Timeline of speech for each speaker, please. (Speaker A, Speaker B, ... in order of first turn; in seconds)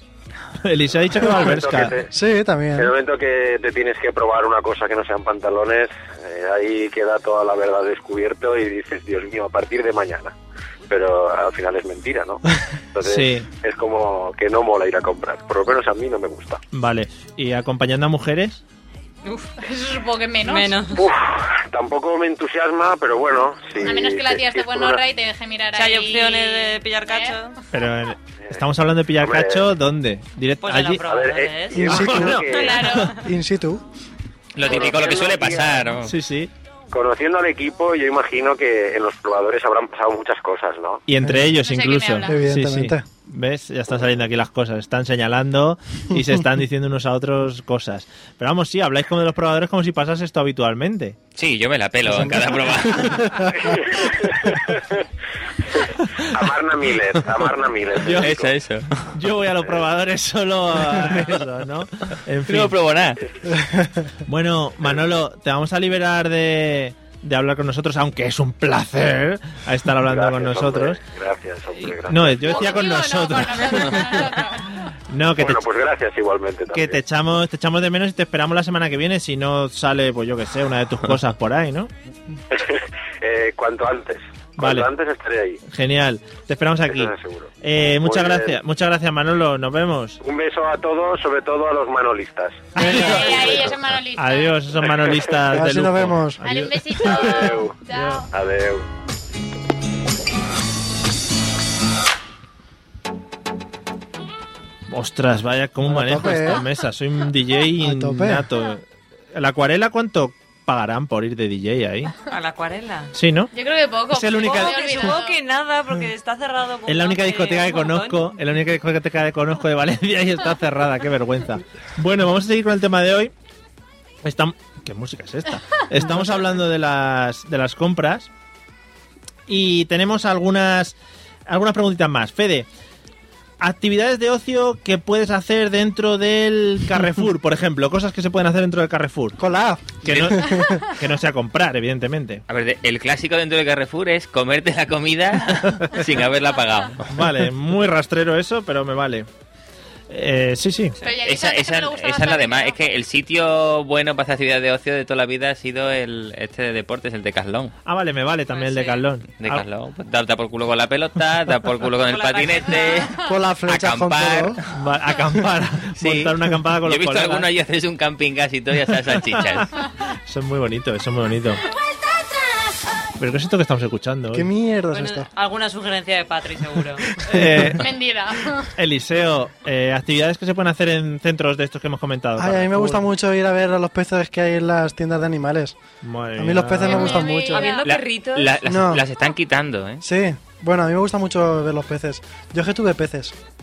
Speaker A: 0.6-2.0, 13.0-13.5, 16.7-18.6, 27.7-31.0, 31.9-33.1, 36.0-36.5, 41.1-51.2, 52.1-52.4, 56.0-56.5, 58.0-58.4, 59.1-62.8, 64.3-71.0, 71.8-74.4, 75.1-75.6, 76.7-81.9, 84.6-84.9, 85.7-90.2, 92.8-98.2, 104.9-112.1, 113.1-113.5, 114.1-115.2, 116.9-123.3, 124.2-128.3, 129.5-130.9, 131.5-132.7, 133.6-139.4, 140.0-142.4, 145.6-145.9, 147.1-149.3, 150.1-151.0, 157.8-159.7, 164.7-167.5, 169.4-171.6, 173.2-174.5, 177.3-177.9, 178.8-183.1, 186.0-187.2
Speaker B: 1.2-2.1, 2.8-10.3, 10.9-12.4, 12.9-16.6, 20.9-25.0, 29.2-29.7, 31.1-32.8, 34.6-36.0, 36.9-41.0, 56.3-58.5, 70.0-72.8, 75.4-77.0, 82.5-85.6, 86.9-88.6, 90.2-93.7, 97.0-97.8, 98.3-98.9
Speaker C: 2.1-2.9, 31.8-32.4, 33.2-33.8, 42.3-43.0, 53.2-53.5, 63.5-64.1, 95.5-96.4, 105.9-106.6, 107.8-108.5, 139.4-140.9, 163.2-164.6, 174.3-175.3, 177.3-177.7, 182.4-185.8, 186.4-187.8, 188.7-189.1, 190.0-193.4
Speaker D: 19.2-19.5, 20.5-21.1, 25.8-27.6, 30.6-33.2, 112.3-113.1, 114.4-118.3, 158.5-159.0, 162.0-163.1, 174.9-177.2, 187.4-188.6
Speaker E: 19.6-20.8, 23.8-27.4, 32.5-33.1, 41.6-42.4, 72.4-74.8, 92.8-94.8, 96.4-98.3, 113.5-115.3, 151.0-152.9, 177.8-178.7, 186.8-187.8
Speaker F: 34.5-36.1, 51.4-53.5, 58.1-59.1, 62.5-63.2, 142.5-147.2, 151.2-157.8, 159.4-164.7, 166.0-169.7, 187.8-190.0